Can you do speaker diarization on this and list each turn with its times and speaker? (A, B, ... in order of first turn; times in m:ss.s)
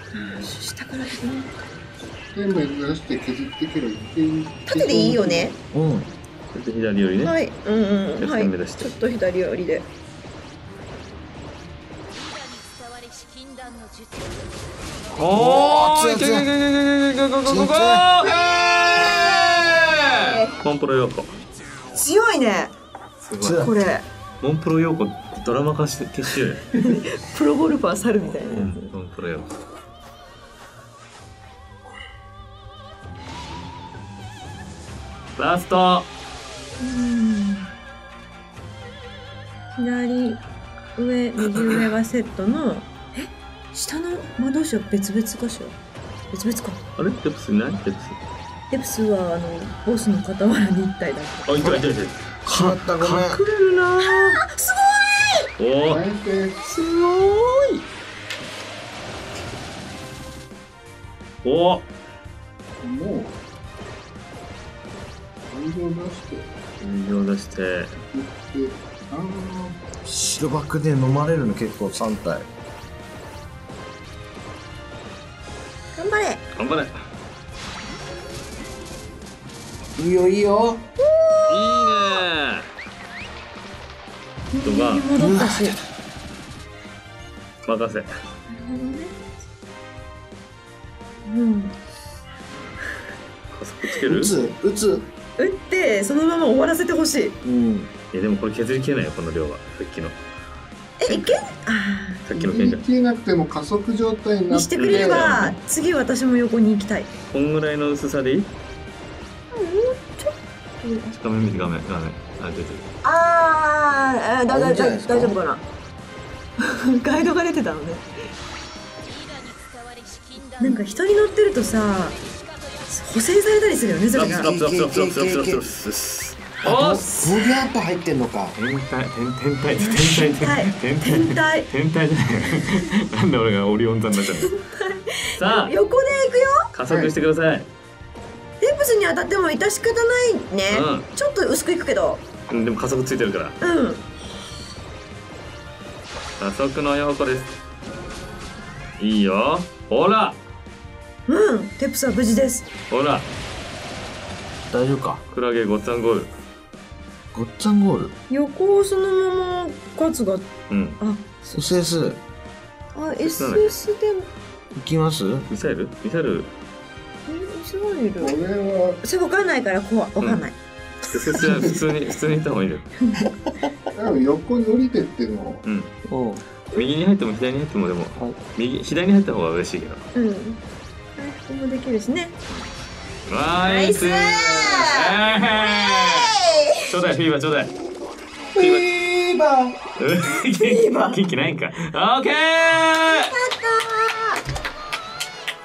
0:00.1-0:01.5 A
0:02.3-0:05.5 B
0:04.7-0:05.6 A
0:05.7-0:06.1 C
0:06.5-0:07.4 D
0:07.2-0:09.9 A
0:08.2-0:08.9 D
0:15.1-0:21.3 D
0:15.3-0:16.5 C
0:17.4-0:18.1 C
0:19.1-0:19.6 A
0:20.1-0:20.6 A
0:21.9-0:22.7 A
0:23.2-0:23.7 D
0:23.4-0:23.7 C
0:23.6-0:24.0 A
0:24.4-0:26.8 D
0:26.8-0:28.9 A
0:28.5-0:29.5 D
0:35.4-0:36.1 D
0:36.8-0:37.7 A
0:39.7-0:40.4 A
0:41.0-0:45.8 A
0:46.3-0:46.8 A
0:47.0-0:48.2 D
0:48.7-0:51.5 A
0:51.4-0:54.2 D
0:52.4-0:53.4 C
0:54.0-0:55.5 A
0:55.6-0:56.0 D
0:55.9-0:56.6 B
0:56.7-0:57.6 D
1:01.4-1:01.8 D
1:02.8-1:03.3 B
1:05.5-1:06.5 B
1:06.8-1:07.9 D
1:08.1-1:09.8 B
1:10.0-1:12.5 C
1:15.9-1:16.4 A
1:16.6-1:17.0 D
1:20.0-1:20.8 C
1:21.0-1:22.2 A
1:21.5-1:22.7 D
1:24.5-1:25.8 A
1:24.6-1:25.1 D
1:25.2-1:25.8 C
1:27.7-1:28.1 D
1:28.5-1:29.2 A
1:31.2-1:31.8 A
1:33.5-1:34.3 D
1:34.0-1:35.1 C
1:35.4-1:37.4 A
1:37.4-1:37.9 C
1:38.1-1:40.2 D
1:41.0-1:42.2 A
1:41.1-1:41.4 D
1:42.3-1:42.8 D
1:42.3-1:45.5 B
1:44.5-1:47.1 A
1:44.7-1:45.6 D
1:47.3-1:48.5 D
1:49.5-1:51.1 A
1:51.1-1:52.9 D
1:53.0-1:55.6 A
1:54.5-1:55.4 C
1:56.6-1:58.0 A
2:00.6-2:02.2 A
2:02.9-2:04.5 A
2:04.1-2:07.5 D
2:04.2-2:05.6 C
2:06.6-2:08.6 C
2:08.6-2:14.5 D
2:09.8-2:11.7 A
2:14.2-2:16.7 A
2:15.4-2:15.8 D
2:16.7-2:17.7 D
2:18.6-2:22.2 A
2:20.7-2:21.1 D
2:22.5-2:23.6 D
2:23.6-2:24.1 A
2:26.4-2:27.5 D
2:29.0-2:30.4 D
2:31.3-2:32.7 A
2:32.9-2:33.3 D
2:34.7-2:35.2 C
2:35.3-2:36.3 D
2:37.3-2:38.1 C
2:38.3-2:40.5 A
2:40.7-2:41.0 D
2:41.0-2:41.6 A
2:41.5-2:42.2 C
2:42.9-2:44.3 A
2:43.2-2:43.8 D
2:44.8-2:45.5 C
2:45.5-2:46.5 D
2:47.3-2:48.4 A
2:48.2-2:49.0 B
2:49.0-2:50.6 A
2:51.1-2:52.9 D
2:51.4-2:51.7 B
2:53.9-2:55.6 B
2:55.6-2:55.9 D
2:56.1-2:56.4 C
2:56.7-3:00.0 D
3:00.2-3:00.6 A
3:01.2-3:02.3 A
3:03.3-3:06.3 D
3:03.6-3:06.8 A
3:06.9-3:07.7 D
3:08.6-3:09.8 C
3:08.6-3:09.0 D
3:10.0-3:13.3 D
3:10.4-3:11.2 A
3:13.1-3:14.4 A